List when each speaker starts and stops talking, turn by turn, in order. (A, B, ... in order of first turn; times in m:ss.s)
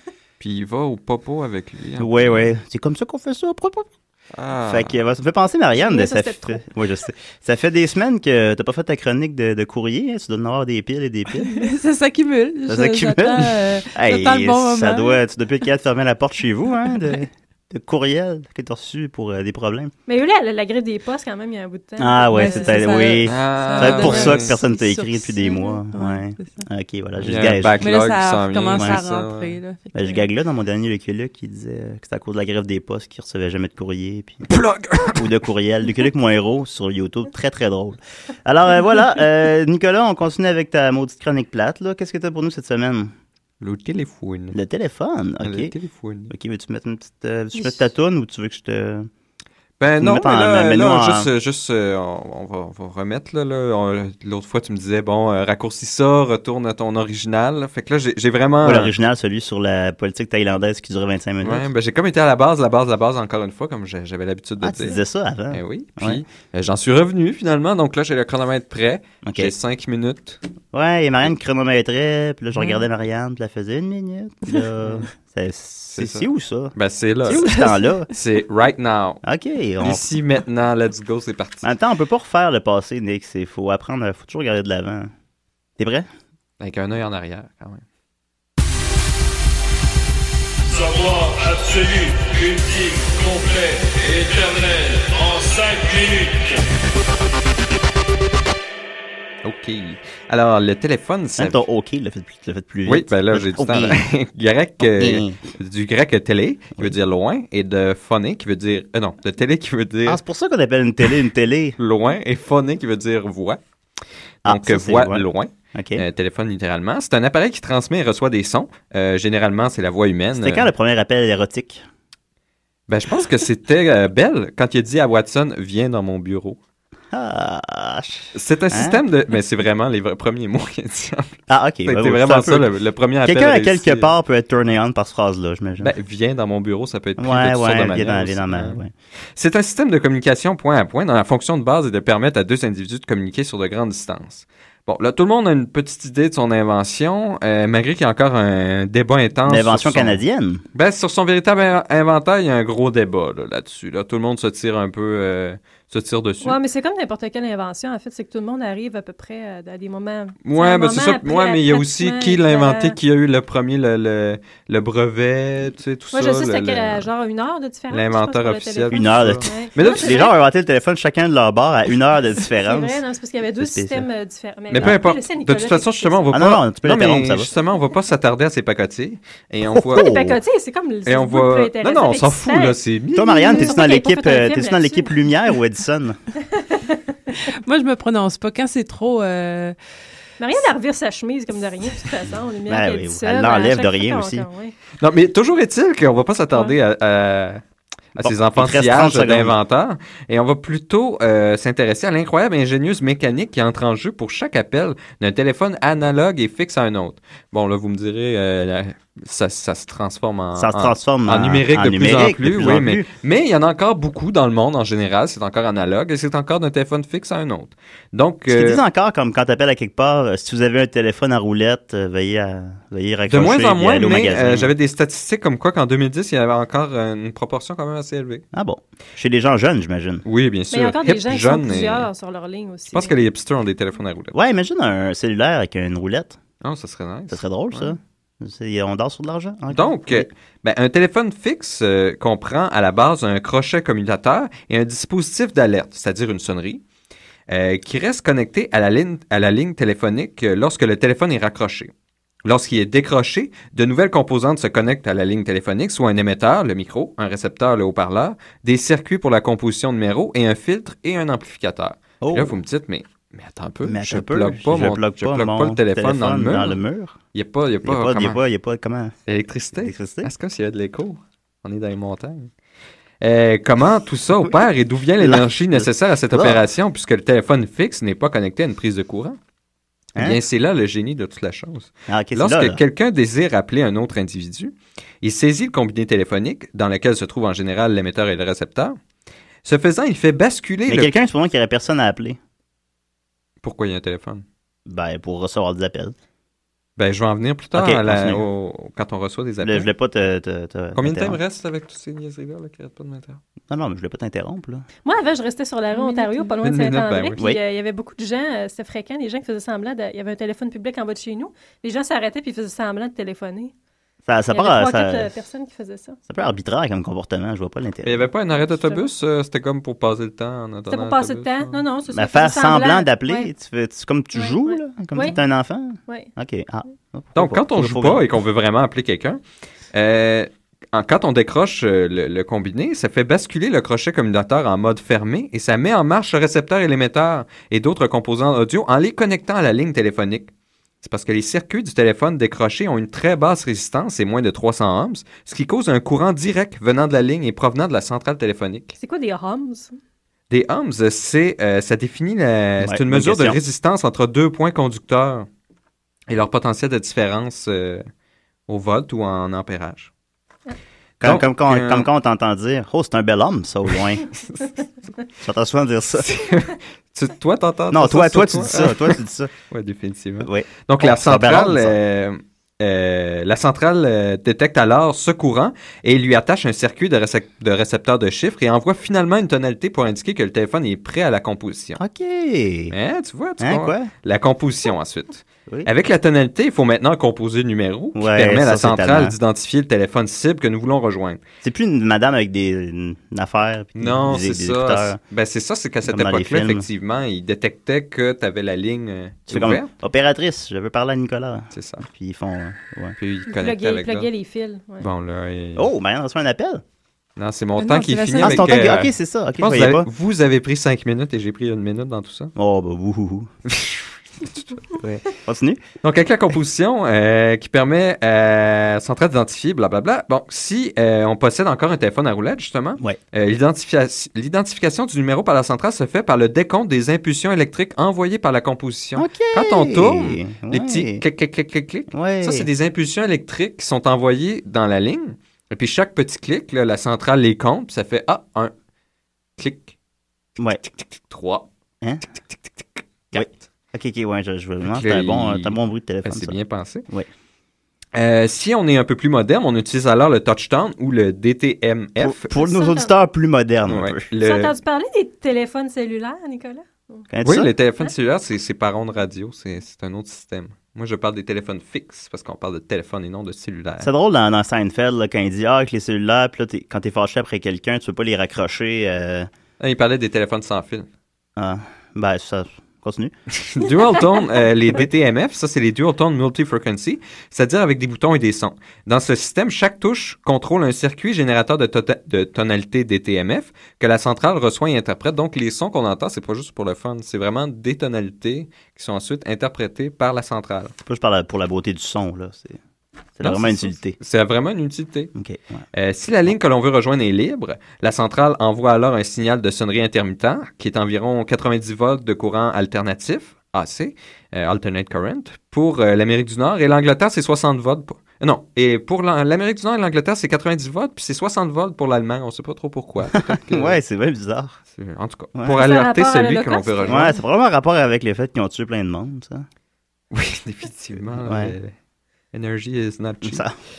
0:00.4-0:02.4 A
0:02.0-0:03.9 B
0:04.4-0:05.0 A
0:04.7-0:11.7 B
0:05.8-0:06.6 C
0:11.4-0:15.2 D
0:12.7-0:19.9 B
0:20.1-0:22.8 C
0:22.0-0:27.9 B
0:22.3-0:26.6 D
0:23.2-0:24.6 A
0:27.2-0:29.6 A
0:27.8-0:30.0 D
0:28.7-0:29.0 B
0:29.9-0:34.5 B
0:34.5-0:35.3 A
0:35.1-0:43.1 B
0:43.6-0:44.6 A
0:44.5-0:45.7 B
0:45.4-0:46.3 A
0:46.3-0:49.1 B
0:49.8-0:58.9 A
0:50.0-0:51.3 B
0:58.6-1:01.7 B
1:01.4-1:05.0 A
1:04.6-1:06.2 B
1:05.5-1:10.4 A
1:09.2-1:09.5 B
1:10.7-1:18.1 B
1:15.9-1:17.5 A
1:17.4-1:17.8 D
1:18.1-1:19.2 A
1:19.2-1:20.0 B
1:19.8-1:21.7 A
1:21.6-1:25.1 B
1:25.8-1:26.1 B
1:26.6-1:27.8 A
1:30.9-1:36.5 E
1:39.4-1:41.6 A
1:41.4-1:44.0 B
1:42.9-1:50.2 A
1:44.8-1:45.4 B
1:50.1-1:51.8 B
1:51.8-1:53.6 A
1:54.4-1:56.0 B
1:54.5-2:00.7 A
2:00.4-2:01.8 B
2:02.9-2:06.6 A
2:07.1-2:09.0 B
2:08.3-2:14.1 A
2:11.5-2:12.7 B
2:13.2-2:16.0 B
2:15.8-2:18.8 A
2:17.2-2:18.9 B
2:19.4-2:30.2 A
2:29.5-2:30.6 B
2:30.8-2:36.6 A
2:36.4-2:43.0 C
2:40.4-2:47.1 A
2:46.1-2:50.3 C
2:47.9-2:50.3 A
2:48.9-2:53.0 B
2:52.6-2:56.4 C
2:53.6-2:54.1 B
2:54.7-3:00.1 A
2:56.3-2:57.5 B
2:59.8-3:00.4 B
3:00.0-3:02.8 C
3:01.1-3:03.6 A
3:03.1-3:06.2 B
3:03.3-3:05.1 C
3:06.5-3:07.0 C
3:07.6-3:09.8 D
3:10.4-3:14.7 C
3:12.7-3:14.5 B
3:15.0-3:17.6 A
3:18.2-3:38.8 A
3:18.2-3:19.6 B
3:30.6-3:33.1 B
3:38.5-3:44.7 B
3:43.3-3:48.4 A
3:48.5-3:50.2 B
3:50.3-3:52.1 A
3:50.7-3:53.2 C
3:52.9-3:54.3 A
3:54.3-3:56.4 B
3:56.6-3:58.0 A
3:57.3-4:00.3 B
3:59.7-4:06.8 A
4:07.5-4:11.9 A
4:12.4-4:26.8 A
4:22.2-4:22.6 B
4:23.8-4:27.2 B
4:27.3-4:28.4 A
4:27.8-4:29.2 B
4:29.3-4:32.5 A
4:29.8-4:30.3 B
4:33.2-4:39.4 A
4:35.2-4:36.6 B
4:40.2-4:49.0 A
4:42.1-4:42.8 B
4:49.6-4:51.2 A
4:50.9-4:52.4 B
4:53.6-4:54.4 A
4:54.9-4:56.2 B
4:57.0-4:59.9 A
4:57.7-4:58.4 B
4:59.6-5:01.4 B
5:01.0-5:03.4 A
5:03.7-5:04.8 B
5:05.0-5:13.7 C
5:05.9-5:06.6 D
5:06.6-5:07.4 A
5:14.3-5:15.4 B
5:14.5-5:16.2 C
5:16.3-5:18.3 B
5:18.0-5:21.8 A
5:18.7-5:19.1 C
5:20.9-5:23.5 C
5:22.1-5:28.2 B
5:24.4-5:25.4 C
5:27.4-5:29.4 A
5:29.9-5:40.5 A
5:41.0-5:49.0 A
5:49.0-5:49.9 C
5:50.5-5:55.5 A
5:52.8-5:53.6 B
5:56.3-5:58.1 A
5:58.7-6:00.1 A
6:01.2-6:04.3 B
6:01.2-6:02.1 A
6:05.4-6:06.3 B
6:06.2-6:09.2 A
6:07.9-6:09.5 B
6:09.7-6:22.0 A
6:10.4-6:12.0 B
6:22.0-6:23.0 B
6:22.9-6:31.4 A
6:23.6-6:24.1 B
6:28.2-6:29.4 B
6:31.6-6:35.2 B
6:34.0-6:39.9 A
6:36.1-6:36.9 B
6:39.5-6:43.2 B
6:41.7-6:42.1 A
6:43.2-6:44.3 A
6:43.5-6:45.1 C
6:45.0-6:45.9 A
6:45.8-6:46.8 B
6:47.4-6:52.5 A
6:47.8-6:48.8 D
6:48.4-6:50.1 B
6:52.6-6:53.5 B
6:53.7-6:55.0 A
6:55.0-6:55.8 B
6:56.0-7:18.7 A
7:09.2-7:11.2 B
7:12.1-7:12.7 B
7:19.6-7:20.0 A
7:20.8-7:21.7 A
7:22.0-7:22.3 B
7:22.8-7:23.6 A
7:23.3-7:26.6 B
7:24.8-7:27.0 A
7:28.2-7:32.5 A
7:32.2-7:34.3 B
7:32.5-7:33.2 C
7:33.9-7:34.7 A
7:34.4-7:37.3 C
7:37.3-7:37.7 B
7:37.4-7:44.1 A
7:44.0-7:49.5 B
7:49.8-7:51.1 A
7:51.6-7:53.3 B
7:53.6-8:10.9 A
8:11.0-8:12.8 B
8:13.4-8:14.2 B
8:13.4-8:15.3 A
8:15.4-8:15.8 B
8:15.9-8:34.0 A
8:33.5-8:34.8 B
8:34.9-8:37.3 A
8:35.7-8:37.4 C
8:37.1-8:39.7 B
8:40.3-8:41.9 A
8:41.4-8:41.8 B
8:42.5-8:43.6 A
8:43.4-8:43.7 B